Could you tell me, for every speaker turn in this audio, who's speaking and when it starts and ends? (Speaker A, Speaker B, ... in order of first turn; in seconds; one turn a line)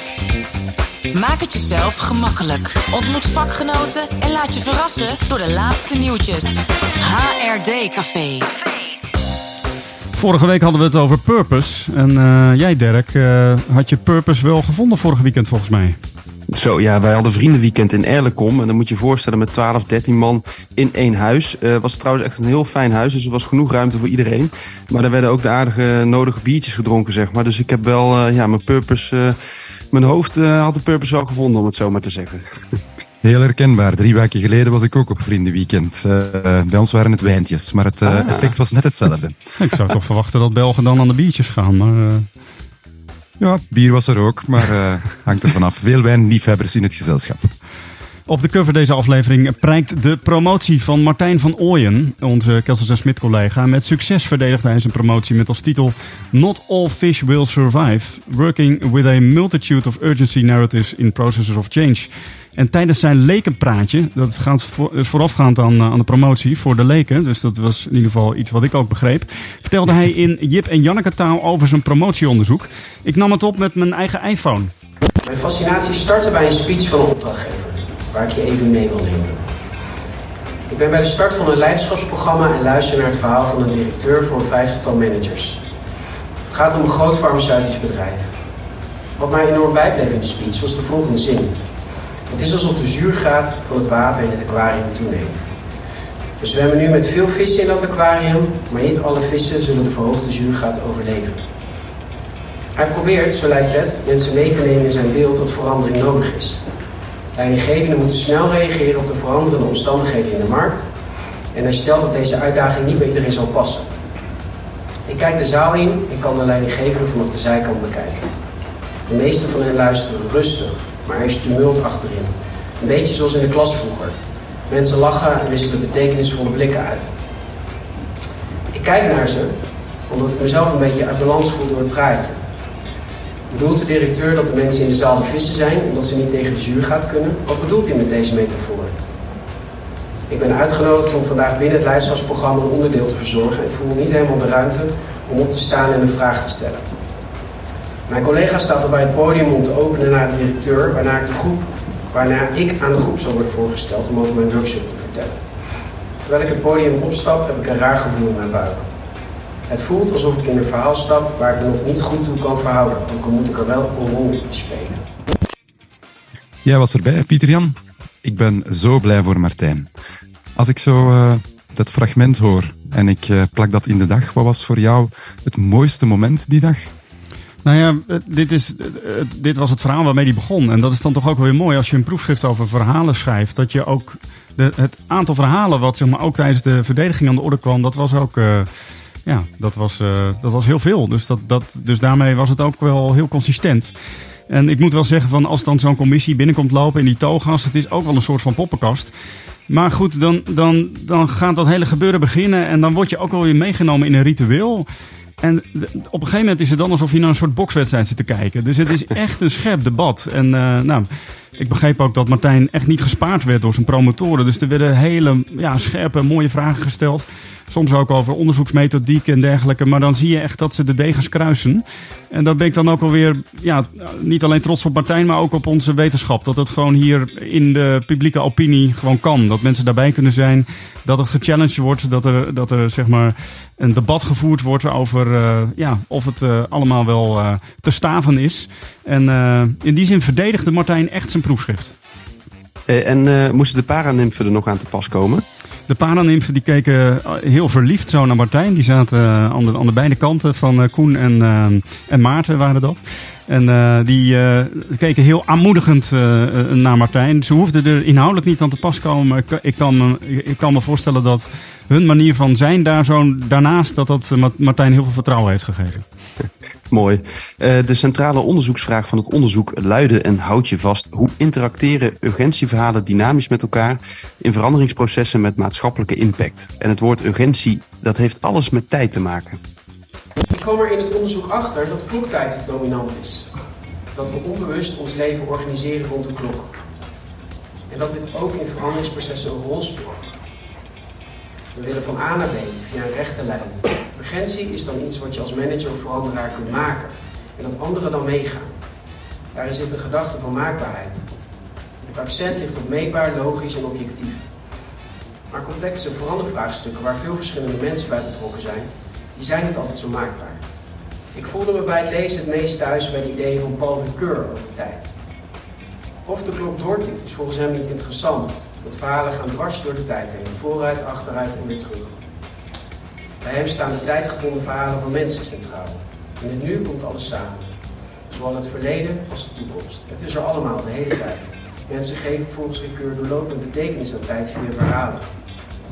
Speaker A: 1.1-8.5
Speaker B: 10.2-16.0
Speaker C: 16.5-29.4
Speaker C: 29.9-32.5
Speaker D: 33.2-39.4
Speaker C: 38.0-38.5
Speaker B: 39.6-42.3
Speaker D: 43.4-47.5
Speaker B: 48.3-74.7
Speaker E: 75.2-79.4
Speaker E: 80.7-85.6
Speaker E: 86.5-88.3
Speaker E: 89.2-91.6
Speaker E: 92.3-95.5
Speaker E: 96.4-101.4
Speaker E: 102.8-106.6
Speaker E: 107.3-110.9
Speaker E: 111.5-113.9
Speaker E: 115.1-118.3
Speaker E: 119.1-124.2
Speaker E: 124.7-127.1
Speaker E: 128.7-129.5
Speaker E: 130.1-132.4
Speaker E: 133.5-138.9
Speaker E: 140.3-146.9
Speaker E: 148.1-155.4
Speaker E: 156.2-158.8
Speaker E: 159.7-165.0
Speaker D: 166.7-169.9
Speaker D: 170.6-176.9
Speaker B: 177.6-188.7
Speaker B: 189.2-193.9
Speaker B: 194.5-199.1
Speaker B: 199.7-204.9
Speaker B: 205.4-241.9
Speaker C: 242.9-245.4
Speaker B: 245.9-266.1
Speaker C: 266.9-279.6
Speaker E: 280.5-283.5
Speaker E: 284.1-286.7
Speaker E: 287.9-290.3
Speaker E: 291.7-298.7
Speaker E: 299.5-301.2
Speaker E: 302.1-304.4
Speaker E: 305.5-310.6
Speaker E: 311.3-315.1
Speaker E: 316.2-322.2
Speaker E: 323.4-327.7
Speaker E: 328.3-335.3